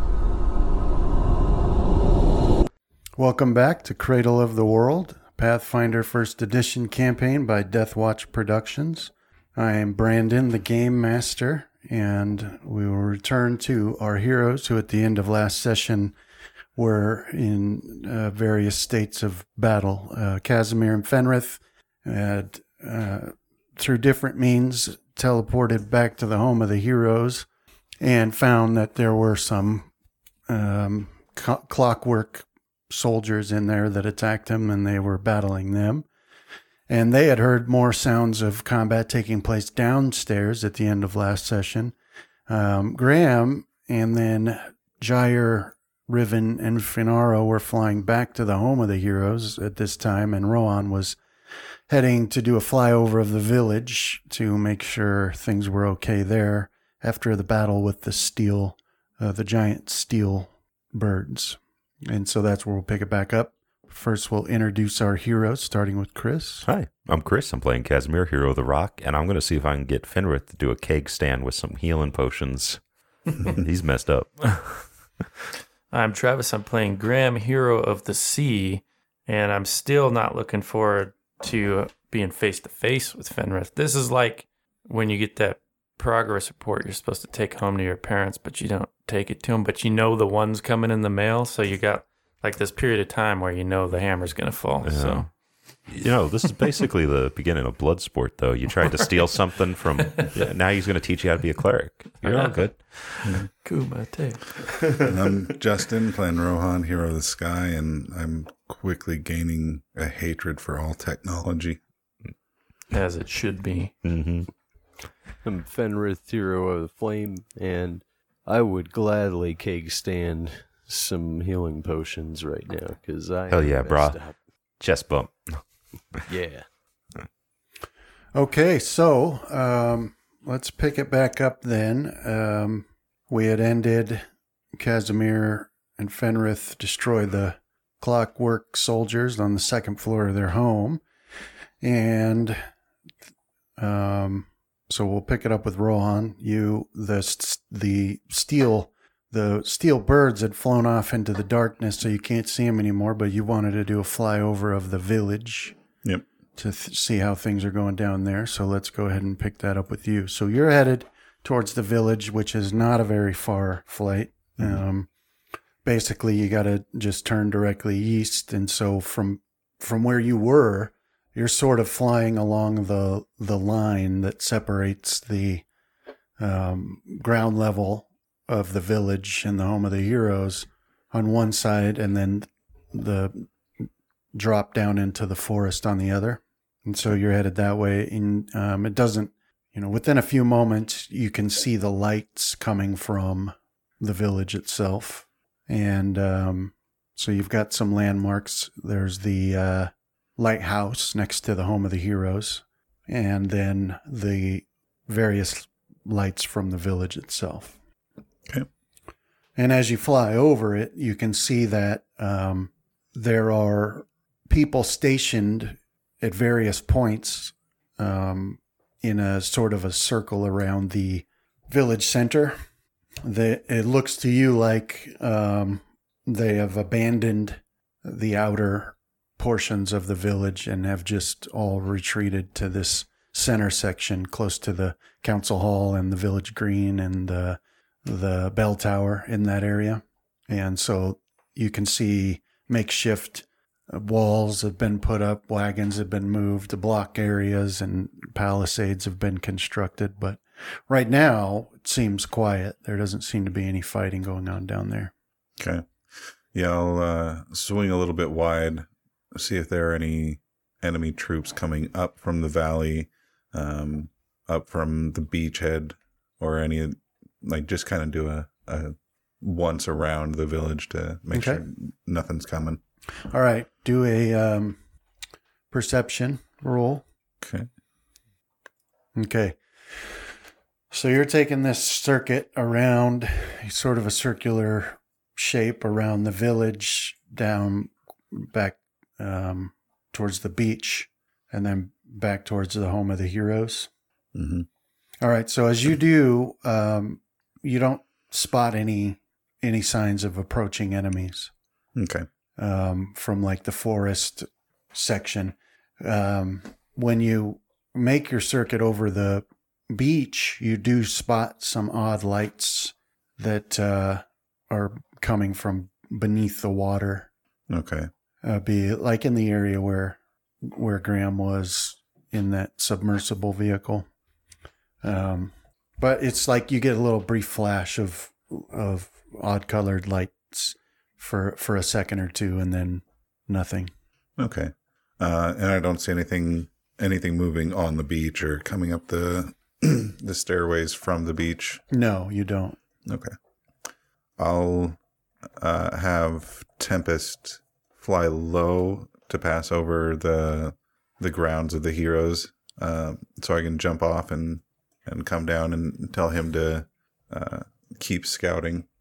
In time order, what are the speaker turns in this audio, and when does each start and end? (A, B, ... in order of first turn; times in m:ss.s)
0:03.2-0:16.1 A
0:16.8-0:27.5 A
0:28.0-0:29.9 A
0:30.5-0:36.1 A
0:36.9-0:42.0 A
0:42.5-0:51.2 A
0:51.9-1:06.7 A
1:06.7-1:12.8 B
1:13.4-1:14.9 B
1:15.9-1:35.3 C
1:34.8-1:35.3 B
1:35.9-1:42.9 B
1:40.2-1:40.5 C
1:42.2-1:45.0 C
1:45.0-1:51.8 D
1:52.9-1:53.9 C
1:54.0-1:54.5 B
1:55.4-2:04.4 E
2:03.5-2:04.2 B
2:04.8-2:05.6 B
2:06.3-2:06.7 E
2:08.3-2:21.0 A
2:21.8-2:22.6 A
2:23.8-2:35.8 A
2:36.6-2:45.1 A
2:45.8-2:55.6 A
2:56.4-3:03.5 A
3:04.3-3:27.8 A
3:29.6-3:42.6 A
3:43.2-4:15.1 A
4:15.6-4:32.8 D
4:31.3-4:31.6 A
4:33.3-4:34.8 A
4:35.7-4:37.0 A
4:37.4-4:37.7 D
4:39.2-4:40.1 A
4:40.9-4:53.9 A
4:54.3-4:54.7 D
4:55.2-5:01.5 A
5:02.0-5:02.3 D
5:02.6-5:17.3 A
5:17.7-5:18.1 D
5:18.4-5:24.1 A
5:25.0-5:33.9 A
5:34.4-5:41.8 D
5:41.9-5:42.8 A
5:43.1-5:43.3 D
5:44.4-5:45.0 D
5:45.6-5:58.9 D